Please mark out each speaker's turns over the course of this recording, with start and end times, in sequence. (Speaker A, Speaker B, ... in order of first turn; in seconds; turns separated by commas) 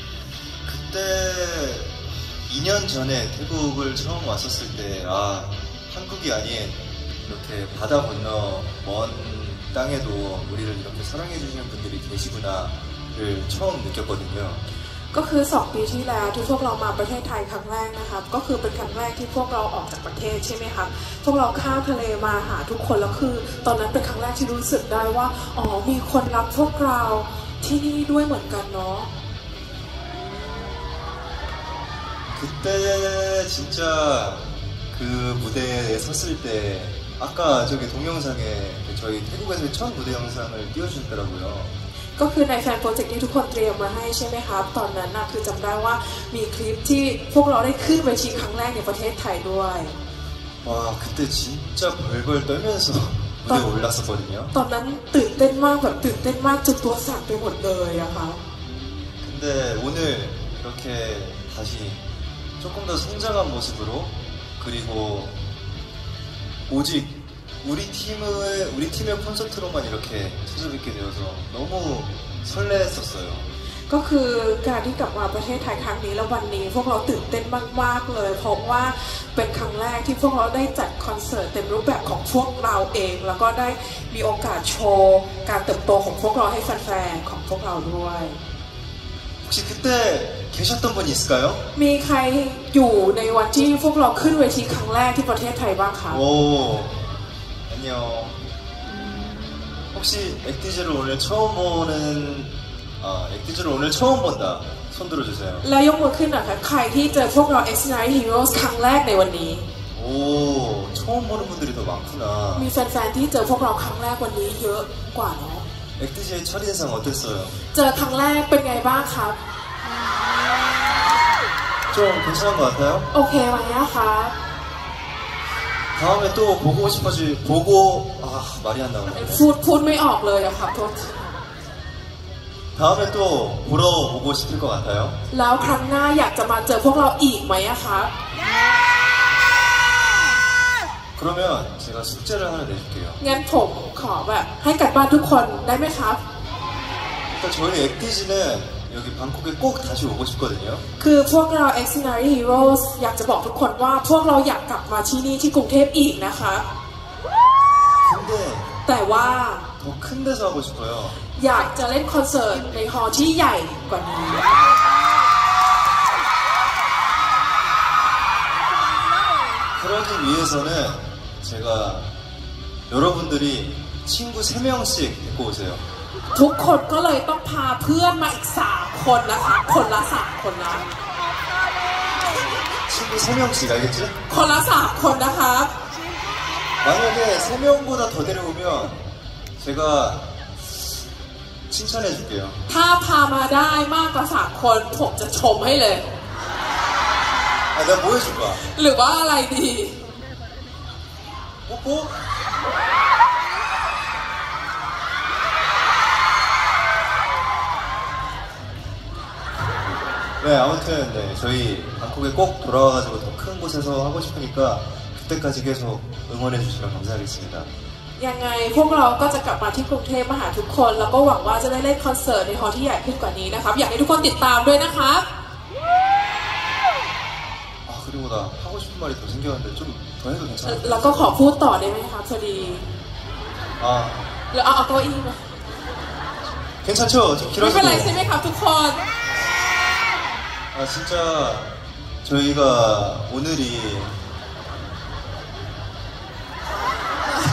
Speaker A: 0.7-14.6, Speaker B: 15.1-29.1, Speaker A: 32.4-41.7, Speaker B: 42.2-50.0, Speaker A: 50.6-54.5, Speaker B: 54.5-58.4, Speaker A: 59.2-62.0, Speaker A: 62.6-65.3, Speaker A: 66.7-73.5, Speaker B: 73.9-88.4, Speaker A: 89.4-91.6, Speaker B: 91.8-96.2, Speaker A: 96.1-97.0, Speaker A: 97.7-98.4, Speaker A: 99.9-105.6, Speaker B: 105.6-109.7, Speaker A: 109.9-112.7, Speaker B: 112.5-115.7, Speaker A: 116.0-117.6, Speaker B: 117.7-119.4, Speaker A: 121.9-123.1, Speaker B: 123.1-124.3, Speaker A: 126.0-129.4, Speaker B: 129.1-131.3, Speaker A: 132.8-135.2, Speaker B: 135.3-138.1, Speaker A: 141.2-143.2, Speaker B: 143.2-146.2, Speaker A: 147.3-150.8, Speaker B: 151.0-156.7, Speaker A: 158.0-158.7, Speaker B: 158.9-159.7, Speaker A: 159.8-161.2, Speaker B: 161.3-164.6, Speaker A: 169.8-172.1, Speaker A: 172.9-175.8, Speaker B: 176.3-180.9, Speaker A: 182.9-184.2, Speaker B: 184.3-185.7, Speaker A: 186.8-189.1, Speaker A: 189.6-190.2, Speaker A: 191.7-192.6, Speaker B: 192.7-196.1, Speaker A: 197.7-198.6, Speaker B: 198.7-200.0, Speaker A: 201.7-202.2, Speaker A: 210.4-217.7, Speaker B: 218.2-225.2, Speaker A: 227.9-231.3, Speaker B: 230.6-232.9, Speaker A: 233.8-234.2, Speaker B: 234.5-235.4, Speaker A: 236.8-238.1, Speaker B: 237.6-239.0, Speaker A: 240.7-244.2